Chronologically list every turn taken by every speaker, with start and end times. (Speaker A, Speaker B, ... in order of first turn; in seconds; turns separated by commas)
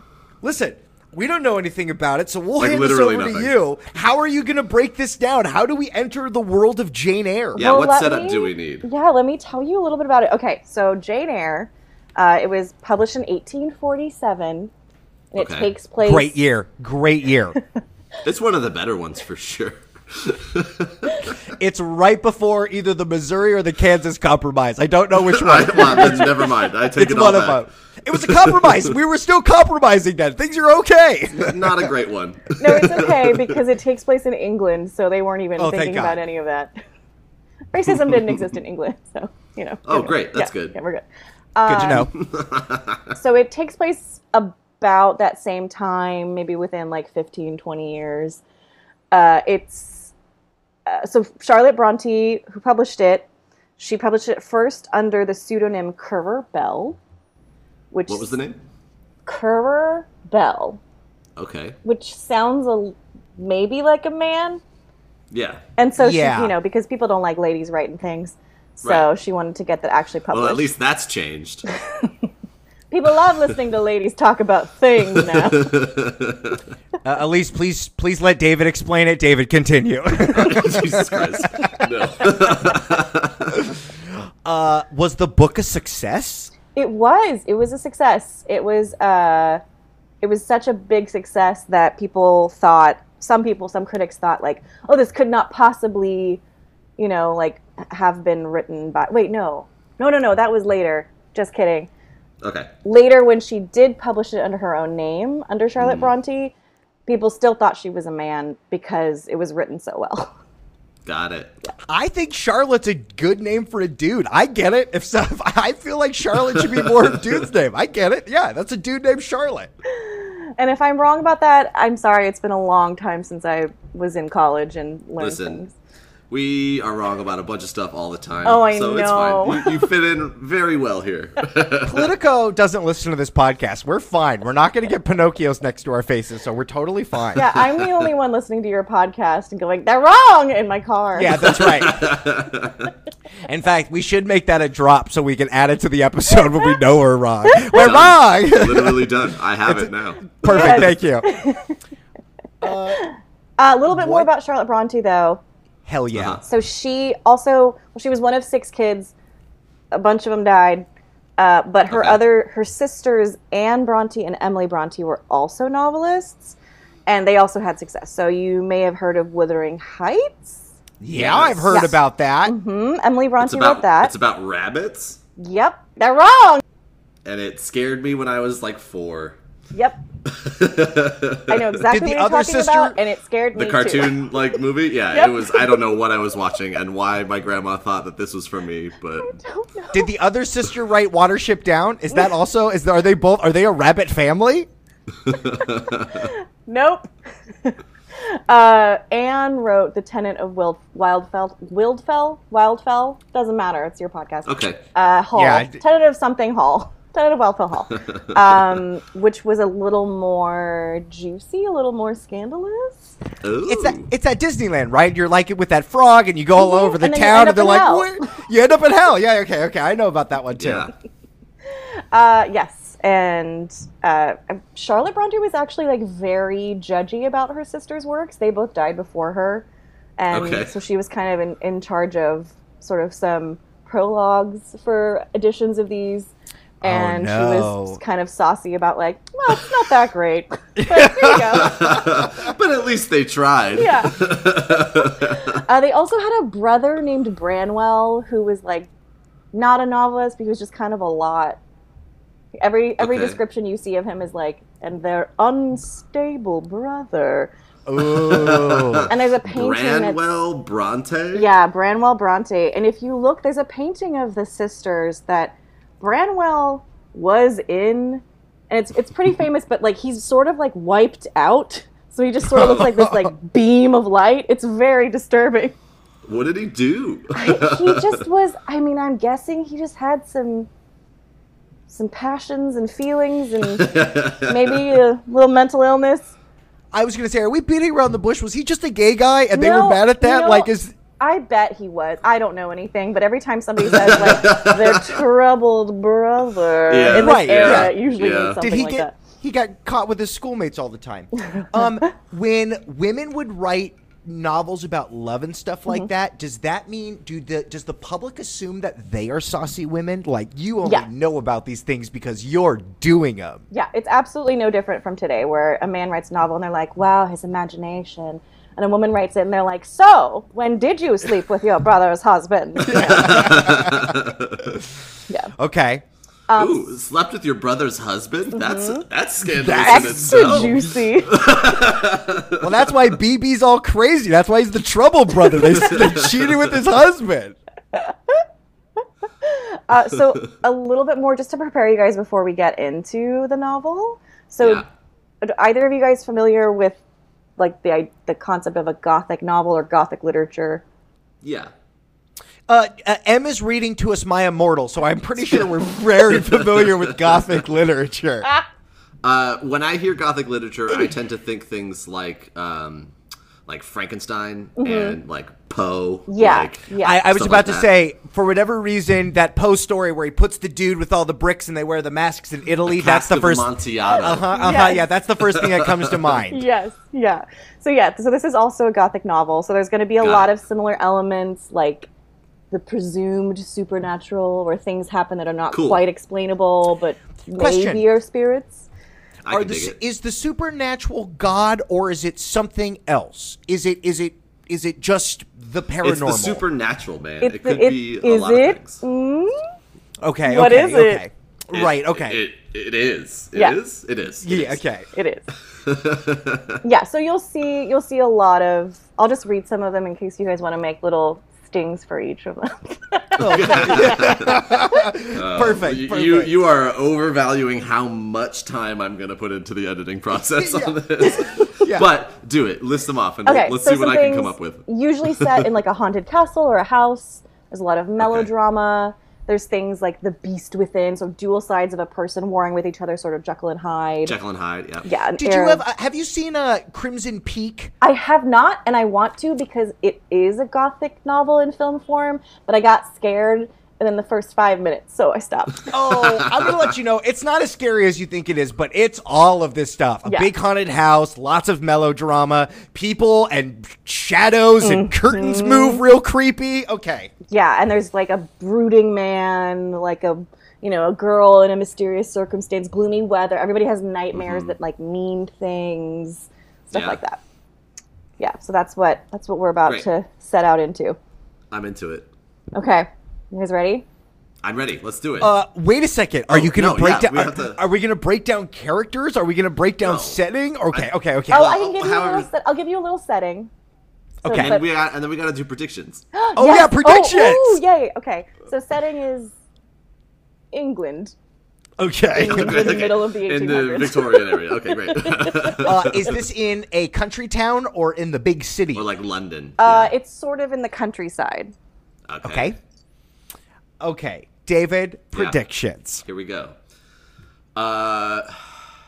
Speaker A: 0.4-7.7, Speaker B: 2.6-3.5, Speaker B: 7.5-8.8, Speaker C: 7.6-14.7, Speaker C: 15.3-16.4, Speaker B: 15.3-15.7, Speaker A: 16.0-17.6, Speaker B: 18.2-21.4, Speaker A: 21.5-31.9, Speaker B: 25.2-28.9, Speaker B: 31.3-33.6, Speaker C: 32.6-36.7, Speaker A: 35.6-36.2, Speaker C: 37.7-41.0, Speaker B: 39.9-40.7, Speaker C: 41.5-42.1, Speaker A: 41.6-42.1, Speaker B: 42.1-43.2, Speaker C: 43.1-48.4, Speaker C: 49.1-50.1, Speaker C: 50.9-53.2, Speaker C: 53.8-57.0, Speaker C: 57.9-58.3, Speaker B: 58.1-58.6, Speaker C: 59.2-60.8, Speaker B: 61.4-61.8, Speaker C: 61.8-64.6, Speaker B: 65.3-65.6, Speaker C: 65.8-70.7, Speaker A: 66.0-66.5, Speaker B: 70.3-71.7, Speaker C: 72.9-75.7, Speaker B: 75.2-76.6, Speaker A: 77.0-81.4, Speaker B: 80.3-83.5, Speaker A: 83.5-83.8, Speaker A: 84.4-86.5, Speaker C: 86.7-89.6, Speaker C: 90.2-96.4, Speaker C: 97.0-101.9, Speaker B: 102.4-102.7, Speaker C: 102.8-106.5, Speaker B: 105.8-106.1, Speaker C: 107.1-110.3, Speaker B: 111.0-111.5, Speaker A: 111.9-119.7, Speaker B: 116.5-117.3, Speaker C: 119.9-125.7, Speaker B: 125.2-125.6, Speaker B: 126.3-132.1, Speaker C: 128.4-129.8, Speaker A: 131.8-137.4, Speaker C: 137.3-141.6, Speaker B: 137.8-138.1, Speaker A: 141.1-142.1, Speaker B: 141.4-142.9, Speaker A: 143.5-151.3, Speaker B: 147.7-150.9, Speaker C: 150.4-151.8, Speaker A: 152.6-153.1, Speaker C: 152.9-155.4, Speaker A: 153.9-154.3, Speaker A: 155.8-156.4, Speaker B: 156.1-156.4, Speaker C: 156.4-159.1, Speaker C: 159.9-160.9, Speaker C: 161.4-166.6, Speaker B: 161.9-162.2, Speaker C: 167.1-170.6, Speaker A: 171.0-172.5, Speaker B: 171.1-171.7, Speaker C: 171.7-174.1, Speaker B: 173.4-175.2, Speaker C: 175.4-176.6, Speaker B: 177.2-179.4, Speaker C: 179.7-180.0, Speaker B: 180.2-181.8, Speaker C: 181.5-184.3, Speaker A: 181.9-183.0, Speaker B: 183.5-189.3, Speaker C: 185.1-185.9, Speaker C: 189.2-190.1, Speaker A: 189.9-194.7, Speaker B: 195.2-196.3, Speaker C: 196.1-197.1, Speaker C: 197.6-213.2, Speaker B: 204.4-204.8, Speaker A: 205.3-205.8, Speaker B: 213.4-214.1, Speaker A: 213.7-220.9, Speaker C: 216.6-218.2, Speaker B: 220.6-220.9, Speaker C: 221.7-229.7, Speaker C: 230.2-242.3, Speaker B: 230.3-230.7, Speaker A: 236.8-238.0, Speaker A: 240.8-241.4, Speaker B: 241.5-245.6, Speaker C: 243.7-244.2, Speaker C: 245.0-248.9, Speaker C: 249.5-251.6, Speaker C: 252.6-257.5, Speaker B: 253.0-253.4, Speaker A: 257.9-259.1, Speaker B: 258.0-261.5, Speaker C: 259.1-260.2, Speaker C: 261.3-275.7, Speaker A: 272.6-273.3, Speaker B: 276.2-278.2, Speaker C: 277.3-280.7, Speaker C: 281.9-286.3, Speaker B: 283.8-284.9, Speaker A: 286.9-290.9, Speaker C: 289.5-299.1, Speaker B: 293.8-295.2, Speaker B: 296.9-298.6, Speaker A: 297.1-297.9, Speaker A: 298.6-313.6, Speaker C: 301.5-302.0, Speaker C: 313.7-323.3, Speaker B: 322.8-324.8, Speaker A: 322.9-324.1, Speaker A: 325.6-326.0, Speaker C: 326.5-326.9, Speaker B: 326.6-332.9, Speaker C: 328.5-329.0, Speaker A: 329.4-330.9, Speaker C: 329.8-331.5, Speaker A: 332.6-337.6, Speaker B: 335.7-336.6, Speaker C: 337.9-338.4, Speaker C: 339.4-344.8, Speaker C: 345.4-347.0, Speaker C: 347.6-350.8, Speaker B: 351.4-351.7, Speaker A: 352.7-358.5, Speaker B: 356.3-357.5, Speaker B: 359.2-363.1, Speaker B: 363.7-367.9, Speaker C: 364.8-365.2, Speaker C: 366.3-367.3, Speaker A: 367.0-376.6, Speaker B: 372.9-374.8, Speaker C: 374.5-375.0, Speaker B: 375.5-376.4, Speaker C: 376.5-382.1, Speaker B: 380.2-380.5, Speaker C: 382.7-388.8, Speaker B: 385.7-386.0, Speaker A: 387.6-388.0, Speaker B: 389.4-389.9, Speaker A: 389.5-396.6, Speaker B: 396.0-399.0, Speaker C: 397.4-399.6, Speaker A: 400.2-402.4, Speaker C: 400.5-401.2, Speaker B: 401.7-404.8, Speaker A: 404.4-405.1, Speaker C: 405.1-405.5, Speaker B: 405.8-406.8, Speaker C: 406.8-414.9, Speaker B: 413.4-414.7, Speaker A: 413.4-416.5, Speaker B: 415.3-425.6, Speaker A: 420.6-422.1, Speaker C: 423.4-434.3, Speaker B: 428.2-428.5, Speaker B: 434.2-435.1, Speaker C: 435.0-435.8, Speaker A: 435.4-437.9, Speaker C: 438.0-445.9, Speaker A: 445.9-457.3, Speaker B: 446.0-446.8, Speaker C: 450.2-450.5, Speaker C: 454.8-456.0, Speaker C: 457.5-467.4, Speaker B: 464.3-464.7, Speaker B: 466.9-467.2, Speaker C: 468.4-471.2, Speaker B: 471.7-472.3, Speaker C: 472.7-474.1, Speaker B: 474.6-475.5, Speaker A: 475.4-481.7, Speaker B: 476.5-477.8, Speaker B: 480.0-480.4, Speaker B: 480.9-482.5, Speaker C: 481.5-483.7, Speaker A: 484.4-484.8, Speaker C: 484.4-484.9, Speaker B: 484.5-486.2, Speaker C: 486.3-489.5, Speaker A: 486.6-487.8, Speaker C: 490.7-491.3, Speaker A: 492.0-493.0, Speaker C: 492.3-495.8, Speaker B: 492.4-496.4, Speaker A: 495.8-499.1, Speaker B: 498.9-500.1, Speaker C: 499.8-501.7, Speaker B: 502.3-502.7, Speaker A: 502.4-502.8, Speaker A: 504.0-506.2, Speaker B: 506.2-506.7, Speaker B: 507.8-508.5